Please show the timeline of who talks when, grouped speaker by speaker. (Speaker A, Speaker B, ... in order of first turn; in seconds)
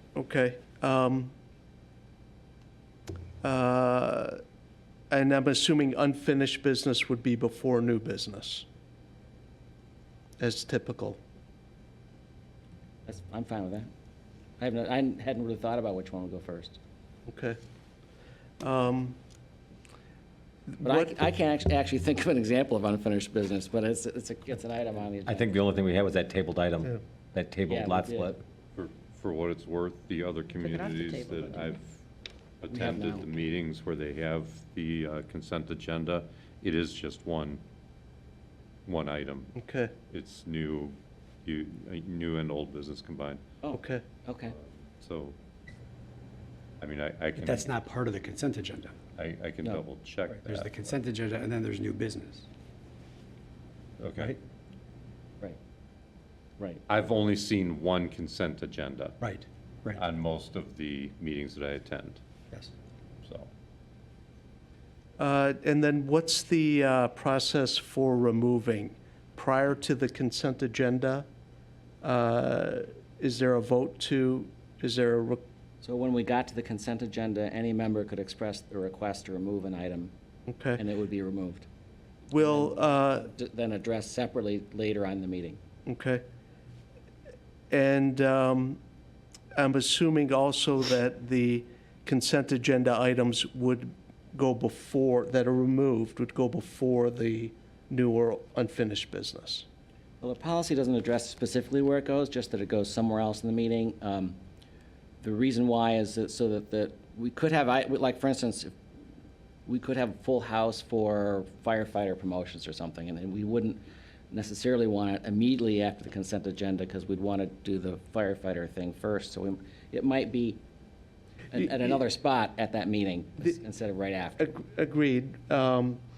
Speaker A: 0.1-1.3, 3.4-4.4, 5.1-8.7, 10.4-11.2, 17.3-17.6, 18.6-19.2, 20.7-21.1, 39.5-39.9, 43.7-44.0, 65.2-71.2, 72.0-75.4, 80.5-80.8, 82.3-83.3, 85.8-86.2, 87.7-88.8, 89.5-99.7, 124.4-126.0
Speaker B: 13.1-13.9, 14.6-16.8, 20.8-25.6, 27.7-28.4, 32.7-33.3, 43.6-44.5, 75.8-80.1, 80.8-81.7, 82.4-85.6, 100.2-104.4, 105.2-108.7, 109.7-120.6, 121.5-124.6
Speaker C: 25.2-28.4
Speaker D: 28.7-32.0, 32.6-37.6, 38.9-39.5, 40.1-43.4, 44.6-45.4, 46.8-47.7, 49.1-50.8, 54.0-54.4, 56.9-59.2, 59.9-62.2
Speaker E: 47.3-48.9, 50.3-52.5, 59.2-60.0